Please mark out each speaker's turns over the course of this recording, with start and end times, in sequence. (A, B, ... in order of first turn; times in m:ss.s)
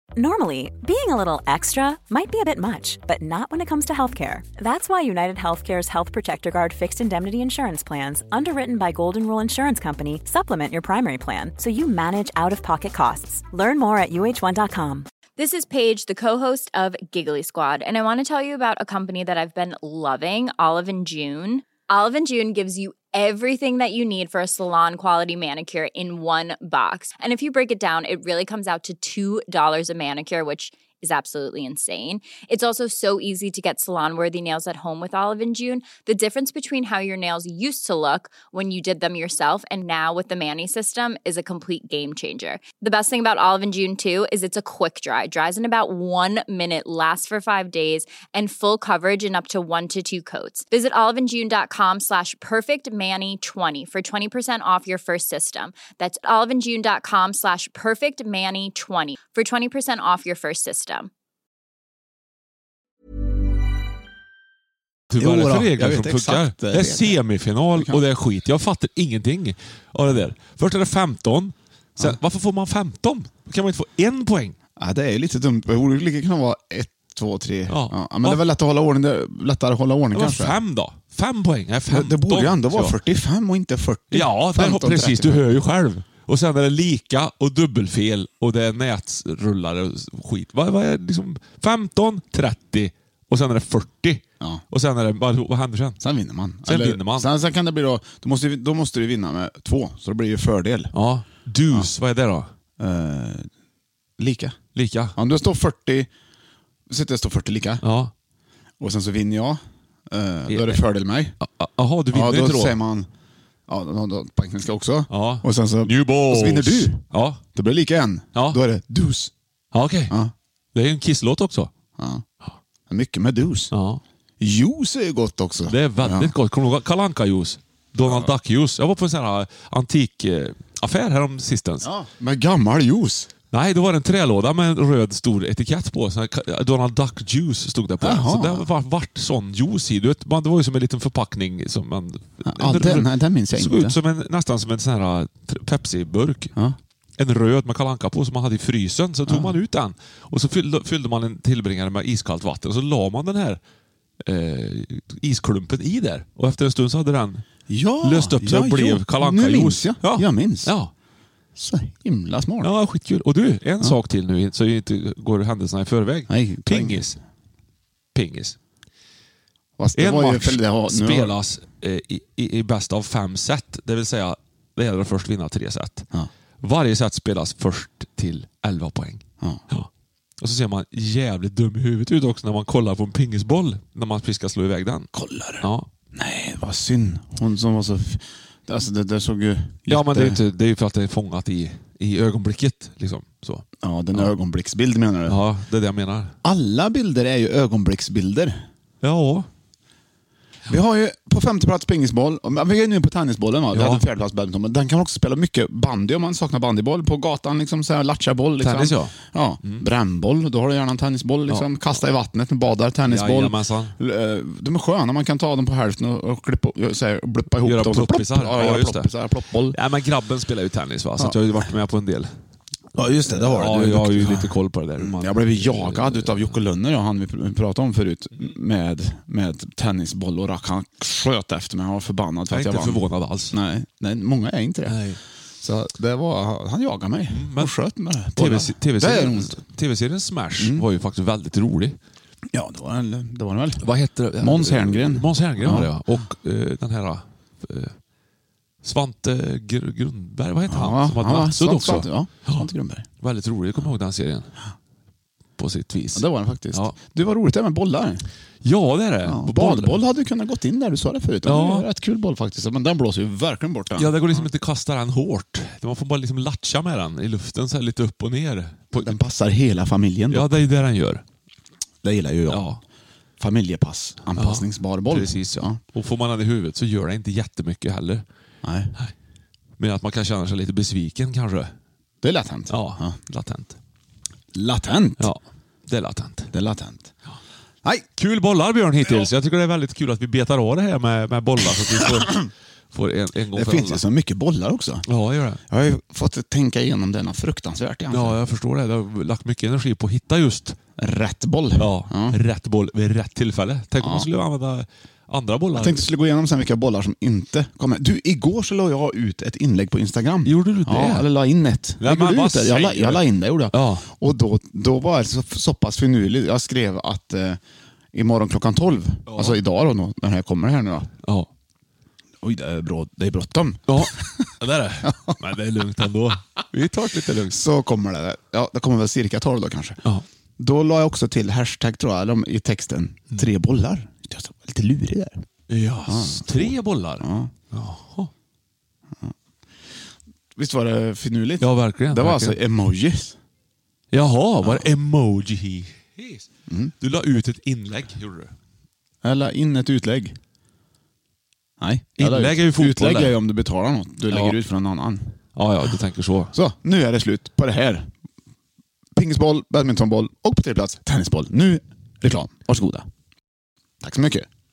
0:00.2-0:15.0 A
0:15.4-1:01.1 B
1:05.1-1:14.6 C
1:05.2-1:07.2 D
1:07.7-1:08.0 D
1:14.8-1:20.6 D
1:17.7-1:18.4 C
1:20.1-1:23.0 C
1:21.9-1:25.4 D
1:24.1-1:36.0 C
1:36.0-1:40.9 D
1:36.6-1:37.3 C
1:40.9-1:42.5 C
1:42.8-1:43.5 D
1:44.2-1:44.6 D
1:44.7-1:45.2 C
1:45.2-1:46.1 D
1:46.9-1:47.8 D
1:47.8-1:48.1 C
1:48.8-1:51.3 D
1:50.5-1:50.8 C
1:51.4-1:52.8 C
1:52.1-1:53.1 D
1:53.7-1:59.3 D
1:55.1-1:57.4 C
1:58.3-1:58.6 C
1:59.7-2:00.1 C
2:00.7-2:01.7 C
2:02.0-2:02.2 D
2:02.9-2:03.7 D
2:03.7-2:04.0 C
2:04.4-2:06.3 D
2:05.6-2:11.9 C
2:08.0-2:08.3 D
2:11.8-2:13.3 D
2:13.5-2:26.5 C
2:18.0-2:18.7 D
2:22.4-2:24.0 D
2:27.2-2:33.6 C
2:29.3-2:29.5 D
2:34.2-2:37.4 C
2:37.7-2:40.7 D
2:38.0-2:40.9 C
2:41.6-2:42.7 D
2:42.6-2:47.2 C
2:46.3-2:47.0 D
2:48.1-2:48.6 C
2:49.8-2:51.3 D
2:49.9-2:56.1 C
2:56.6-2:59.9 C
3:00.4-3:05.9 C
3:05.1-3:10.4 D
3:09.9-3:14.3 C
3:13.8-3:15.4 D
3:15.3-3:16.3 C
3:16.4-3:18.6 D
3:19.0-3:19.5 C
3:20.7-3:39.8 D
3:23.7-3:24.0 C
3:28.6-3:29.8 C
3:33.0-3:33.9 C
3:37.6-3:39.1 C
3:39.7-3:42.3 C
3:42.9-3:55.0 D
3:43.3-3:46.5 C
3:52.5-3:53.6 C
3:54.9-3:55.2 C
3:55.6-3:59.6 D
3:57.3-3:57.7 C
3:58.3-4:02.0 C
4:00.6-4:00.8 D
4:02.5-4:03.8 D
4:03.8-4:08.0 C
4:04.4-4:05.9 D
4:08.8-4:12.6 C
4:10.7-4:13.1 D
4:13.2-4:14.5 C
4:15.6-4:17.0 C
4:16.1-4:18.2 D
4:18.6-4:20.0 C
4:19.2-4:24.4 D
4:21.4-4:21.9 C
4:24.0-4:29.1 C
4:28.9-4:30.5 D
4:30.3-4:31.2 C
4:32.0-4:32.6 D
4:32.5-4:32.8 C
4:33.4-4:35.8 D
4:34.3-4:38.2 C
4:38.6-4:38.9 D
4:39.8-4:41.7 C
4:42.2-4:43.2 D
4:42.7-4:43.8 C
4:44.5-4:45.3 D
4:45.2-4:46.5 C
4:46.5-4:47.1 D
4:48.2-4:52.4 C
4:52.0-4:52.5 D
4:52.9-4:54.0 C
4:53.5-4:55.0 D
4:55.1-4:55.6 C
4:55.7-4:58.4 D
4:58.1-5:00.8 C
5:01.0-5:02.4 D
5:01.8-5:06.1 C
5:04.0-5:04.3 D
5:05.7-5:17.6 D
5:10.4-5:11.3 C
5:12.0-5:14.1 C
5:18.1-5:21.1 D
5:19.3-5:19.6 C
5:21.2-5:21.5 C
5:22.4-5:24.5 D
5:23.9-5:27.6 C
5:25.0-5:25.3 D
5:27.5-5:30.0 D
5:30.6-5:35.4 D
5:35.7-5:38.3 C
5:36.1-5:37.5 D
5:40.6-5:43.4 D
5:41.6-5:42.6 C
5:44.1-5:46.5 C
5:46.7-5:46.9 D
5:47.0-5:48.5 C
5:49.2-5:50.4 D
5:51.8-5:55.2 D
5:52.2-5:53.4 C
5:54.3-5:54.6 C
5:55.5-5:56.5 C
5:56.5-5:58.1 D
5:59.1-6:03.0 D
6:04.0-6:04.5 D